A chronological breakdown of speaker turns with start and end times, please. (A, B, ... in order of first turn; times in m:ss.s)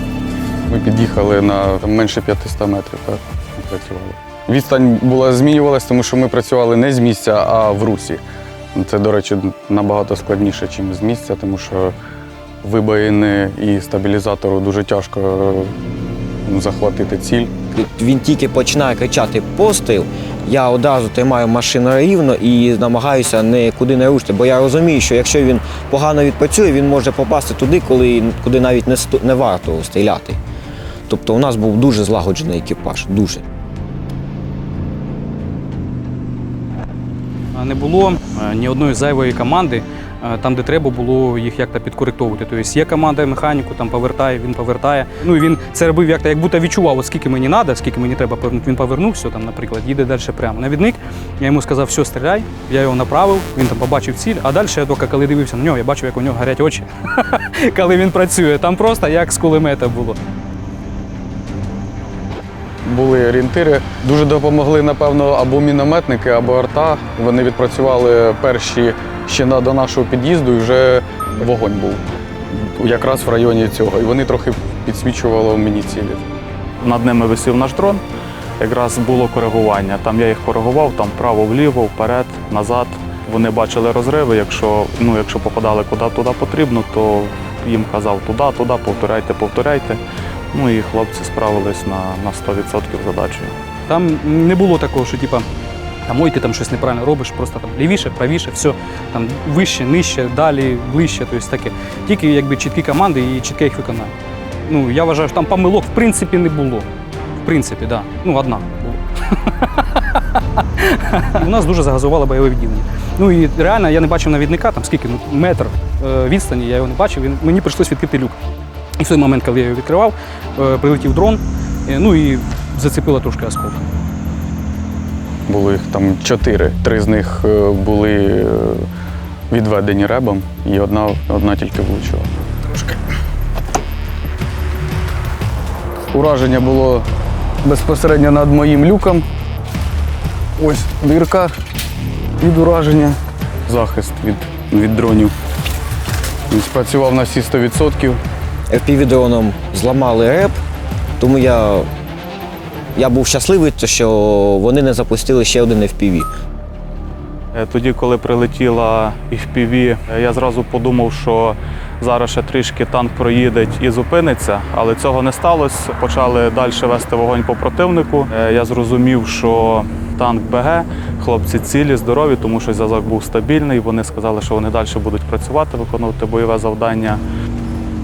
0:00.7-0:08.2 A
0:08.7-0:11.9 A
0:12.6-0:15.7 A
0:16.4-0:17.5 A
0:17.7-0:30.4 B
0:31.1-0:33.4 B
0:37.5-1:00.2 C
1:02.8-1:16.2 A
1:16.8-1:18.0 D
1:18.6-1:30.0 D
1:30.5-1:33.6 D
1:33.9-1:35.4 C
1:36.1-1:44.1 C
1:44.6-1:46.9 C
1:47.4-1:58.4 C
1:59.0-2:03.8 C
2:05.5-2:08.9 A
2:09.5-2:12.9 A
2:16.1-2:17.1 A
2:17.6-2:19.2 A
2:20.6-2:21.5 A
2:22.4-2:25.3 A
2:26.5-2:28.2 A
2:28.7-2:30.6 B
2:31.2-2:31.9 B
2:32.9-2:36.3 B
2:37.5-2:57.2 D